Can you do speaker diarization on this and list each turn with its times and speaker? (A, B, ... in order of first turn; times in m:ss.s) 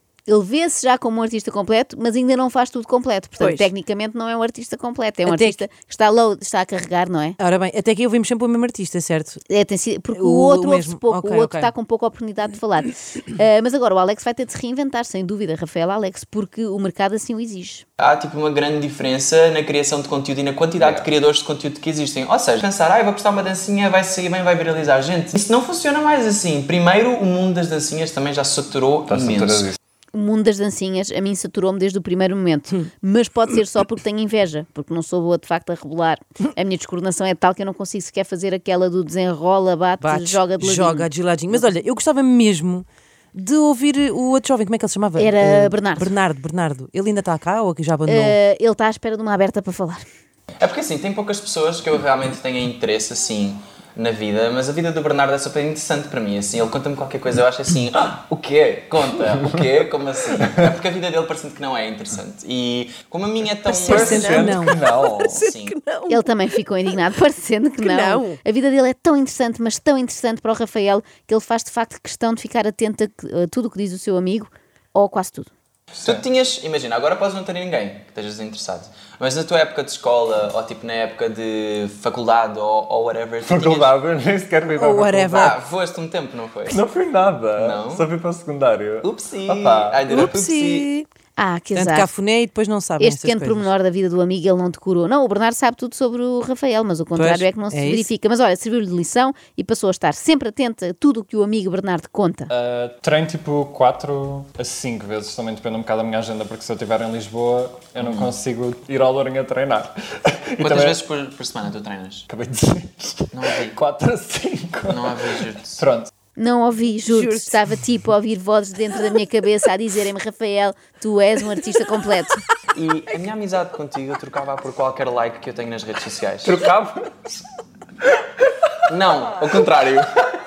0:00.2-0:07.4 A
0:03.4-0:03.7 B
0:05.2-0:05.6 C
0:07.4-0:09.4 C
0:09.5-0:17.8 A
0:10.1-0:11.7 C
0:18.0-0:29.7 D
0:20.8-0:21.1 E
0:29.1-0:29.8 E
0:30.1-0:41.6 A
0:40.0-0:48.4 C
0:45.2-0:46.1 A
0:48.0-0:50.0 A
0:50.6-1:04.6 D
1:03.7-1:04.8 C
1:03.9-1:05.4 E
1:03.9-1:06.2 B
1:05.4-1:05.7 D
1:06.1-1:15.5 A
1:07.8-1:08.4 B
1:16.0-1:16.2 E
1:16.0-1:23.9 D
1:23.4-1:25.5 E
1:24.7-1:25.5 C
1:25.3-1:26.8 D
1:26.7-1:30.0 E
1:27.6-1:28.1 D
1:29.0-1:30.9 D
1:30.1-1:31.1 B
1:31.4-1:32.1 A
1:31.7-1:33.7 C
1:33.0-1:42.5 A
1:37.1-1:38.1 C
1:42.5-1:51.0 E
1:48.0-1:48.3 D
1:50.6-1:52.2 D
1:52.3-1:56.1 E
1:53.3-1:53.8 D
1:54.9-1:55.8 D
1:56.4-2:02.4 A
1:57.0-1:57.5 B
2:02.7-2:06.6 D
2:06.4-2:07.4 E
2:08.9-2:10.1 D